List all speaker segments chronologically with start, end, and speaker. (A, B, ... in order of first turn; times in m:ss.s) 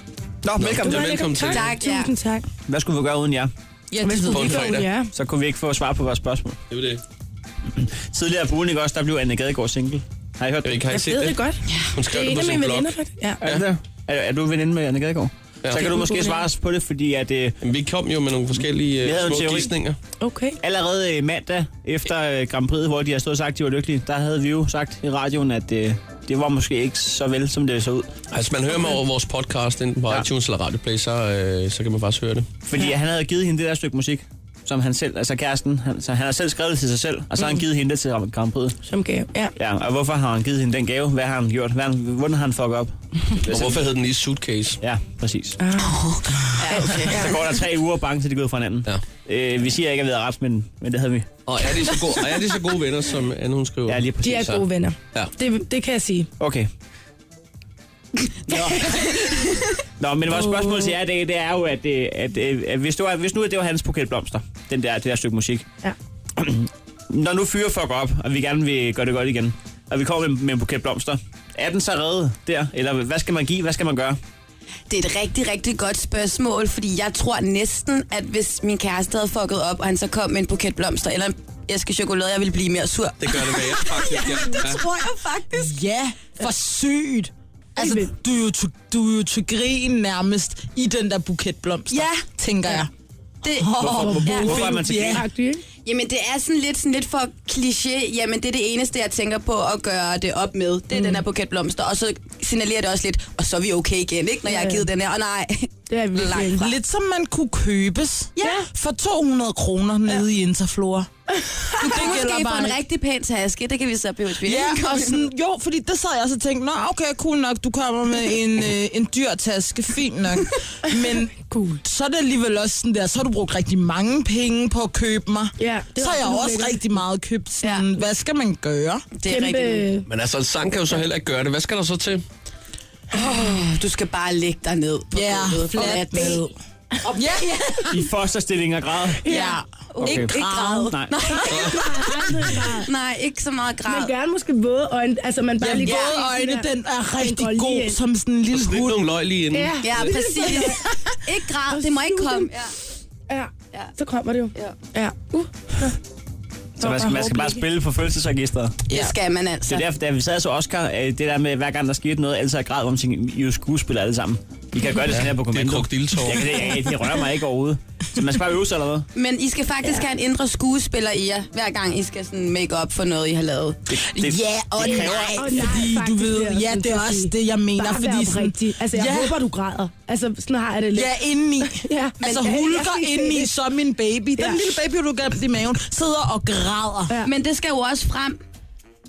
0:00.4-0:01.3 A
0:00.6-0:01.7 B
0:00.8-0:02.4 C
0:01.5-0:02.1 D
0:02.7-0:03.5 A
0:03.9-0:04.7 E
0:04.0-0:05.1 C
0:04.3-0:04.9 B
0:05.1-0:06.6 A
0:06.7-0:07.0 B
0:07.7-0:10.8 A
0:10.6-0:11.4 B
0:10.9-0:13.4 C
0:11.9-0:13.6 B
0:13.4-0:17.6 A
0:15.6-0:15.9 B
0:15.7-0:16.5 C
0:17.6-0:20.0 B
0:19.0-0:19.7 A
0:20.2-0:20.6 C
0:20.6-0:28.1 A
0:28.3-0:32.5 B
0:32.6-0:38.8 A
0:38.9-0:39.5 C
0:39.6-0:43.7 A
0:43.4-0:44.8 B
0:44.8-0:45.6 A
0:45.6-0:46.1 C
0:46.6-0:47.2 D
0:46.6-0:47.3 C
0:46.7-0:51.3 A
0:51.5-0:54.6 B
0:53.9-0:54.5 A
0:54.2-0:56.3 C
0:56.4-0:56.7 A
0:58.5-0:58.8 A
0:58.8-0:59.2 C
1:00.0-1:05.6 A
1:00.3-1:00.9 C
1:06.4-1:14.2 A
1:14.9-1:25.7 D
1:23.2-1:24.8 B
1:25.5-1:32.9 E
1:27.8-1:28.1 C
1:31.9-1:32.3 D
1:33.4-1:34.5 D
1:33.5-1:35.2 E
1:33.8-1:35.2 A
1:34.0-1:35.6 C
1:35.7-1:46.7 D
1:40.9-1:41.2 C
1:44.4-1:44.9 C
1:45.9-1:46.7 C
1:46.6-1:51.1 E
1:48.4-1:48.6 D
1:48.4-1:48.6 C
1:51.8-1:52.8 E
1:51.8-1:52.1 C
1:51.8-1:55.2 D
1:54.4-2:09.1 E
2:00.9-2:01.8 C
2:05.6-2:07.0 C
2:09.1-2:09.8 D
2:09.2-2:10.0 C
2:10.0-2:12.2 B
2:13.1-2:16.4 D
2:15.1-2:16.5 E
2:16.0-2:16.4 C
2:17.0-2:17.9 E
2:17.9-2:19.2 A
2:19.2-2:19.6 C
2:19.2-2:20.9 E
2:19.3-2:21.8 D
2:20.0-2:21.1 A
2:21.3-2:22.9 C
2:21.5-2:21.9 B
2:22.8-2:24.1 D
2:23.8-2:28.0 C
2:25.6-2:29.0 E
2:25.8-2:26.2 D
2:28.5-2:29.8 B
2:29.5-2:30.8 C
2:29.8-2:32.7 D
2:31.7-2:32.5 C
2:33.3-2:36.0 C
2:34.5-2:34.8 D
2:36.8-2:38.8 A
2:36.8-2:37.6 C
2:38.9-2:39.8 D
2:39.6-2:49.1 A
2:45.0-2:46.6 B
2:49.1-2:53.9 D
2:53.9-2:55.4 A
2:54.1-2:59.4 E
2:54.7-2:55.4 D
2:54.9-3:03.5 C
3:00.9-3:07.2 E
3:04.4-3:04.8 C
3:07.2-3:08.4 D